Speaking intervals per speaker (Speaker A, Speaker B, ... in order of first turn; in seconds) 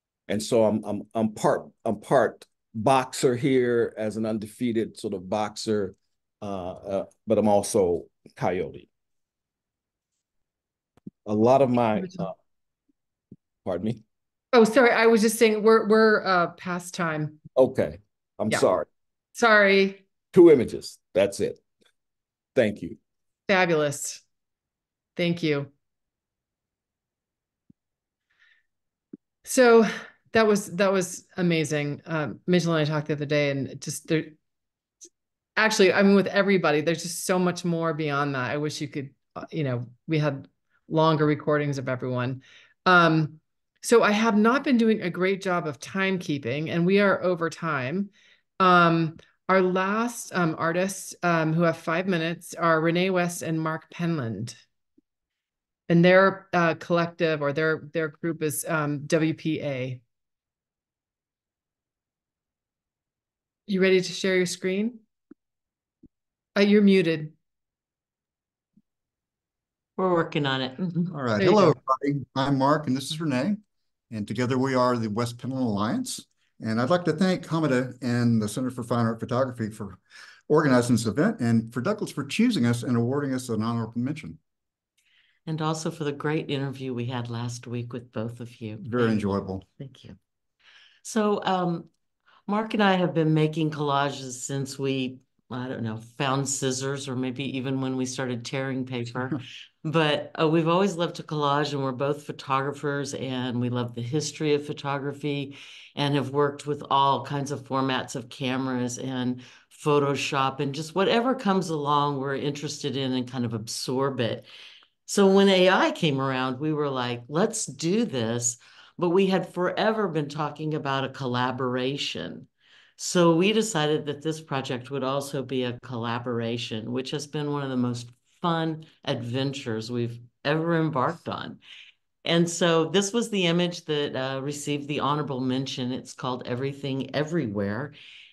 Speaker A: 0.3-8.9, 11.2-12.3, 13.6-14.0, 17.6-18.9, 20.3-21.6, 22.6-23.0
Speaker B: 14.5-17.4, 19.3-20.0, 23.5-24.2, 25.1-25.7, 29.4-34.3, 35.5-54.5, 55.9-60.0, 63.7-65.0, 66.5-67.3, 71.4-71.8
Speaker C: 70.0-71.2, 85.5-90.2, 91.0-91.9, 92.5-114.5, 115.1-131.6, 132.2-137.9
Speaker D: 71.1-73.6, 74.1-84.4, 88.8-89.6